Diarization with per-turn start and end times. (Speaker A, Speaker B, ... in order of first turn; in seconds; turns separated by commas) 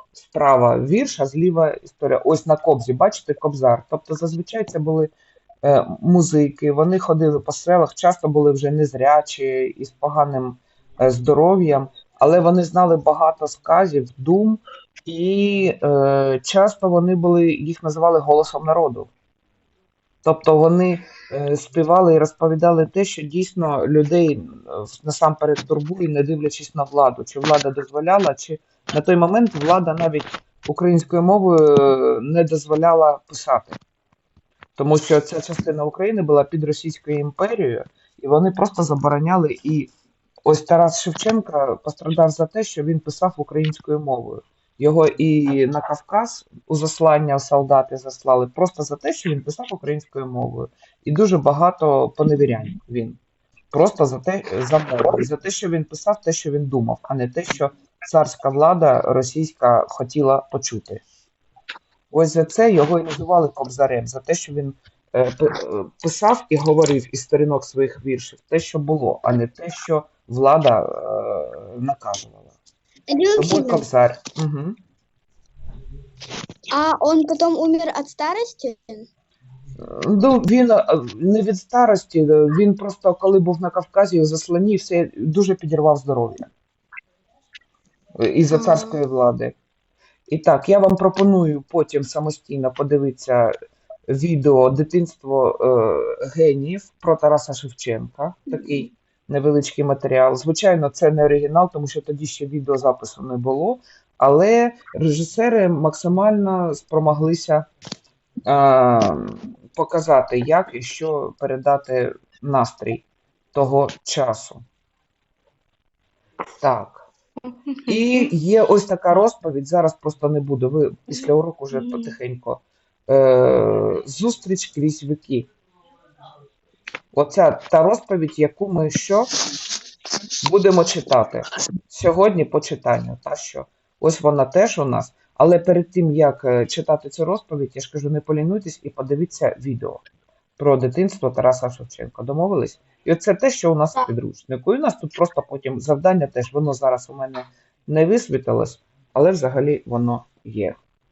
Speaker A: 0.1-5.1, Speaker A: 5.6-19.1, Speaker A: 20.2-33.8, Speaker A: 34.8-39.9, Speaker A: 40.5-53.2, Speaker A: 53.7-61.0, Speaker A: 62.1-72.6, Speaker B: 73.1-73.8, Speaker A: 73.4-74.8, Speaker B: 76.7-79.1, Speaker A: 79.8-86.5, Speaker A: 88.2-89.5, Speaker B: 88.5-89.0, Speaker A: 90.3-93.5, Speaker A: 94.1-107.7, Speaker A: 108.5-114.6, Speaker A: 116.6-117.1, Speaker A: 117.9-125.5, Speaker A: 127.1-129.3, Speaker A: 130.4-140.0, Speaker A: 140.6-150.8